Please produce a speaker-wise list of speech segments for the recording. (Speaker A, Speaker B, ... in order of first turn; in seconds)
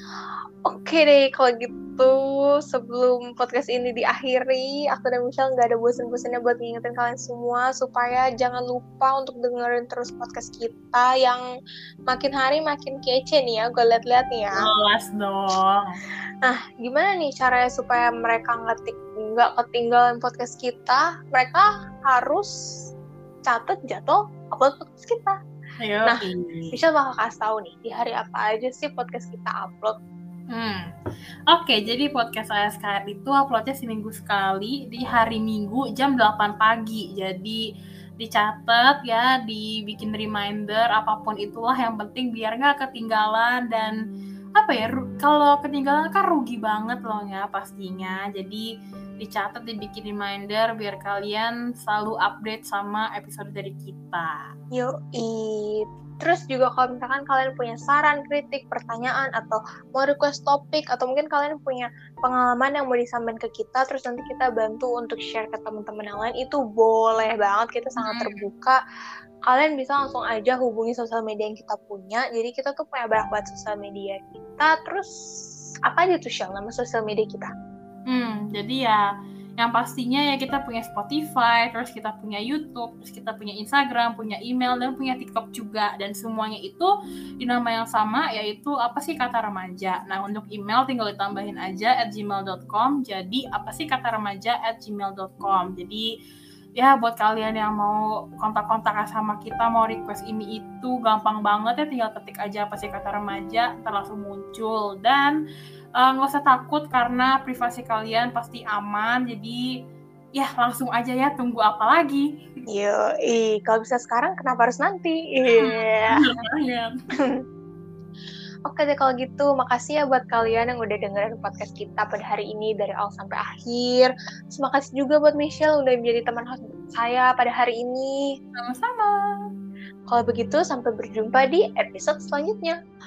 Speaker A: 0.7-11.4, 12.1-14.7, 16.4-22.8, 23.4-25.4, 26.1-29.9, 54.7-68.8, 69.5-75.1, 75.9-77.5, 112.7-116.3, 118.7-128.2, 130.1-132.8
Speaker B: 14.5-16.0, 25.8-26.8, 30.5-30.9, 31.5-37.6, 38.2-44.0, 44.6-48.6, 49.2-54.4, 68.0-68.5, 78.1-79.0, 79.6-86.9, 87.4-96.0, 96.8-105.4, 106.0-109.6, 110.4-112.3, 115.5-116.9, 128.6-129.4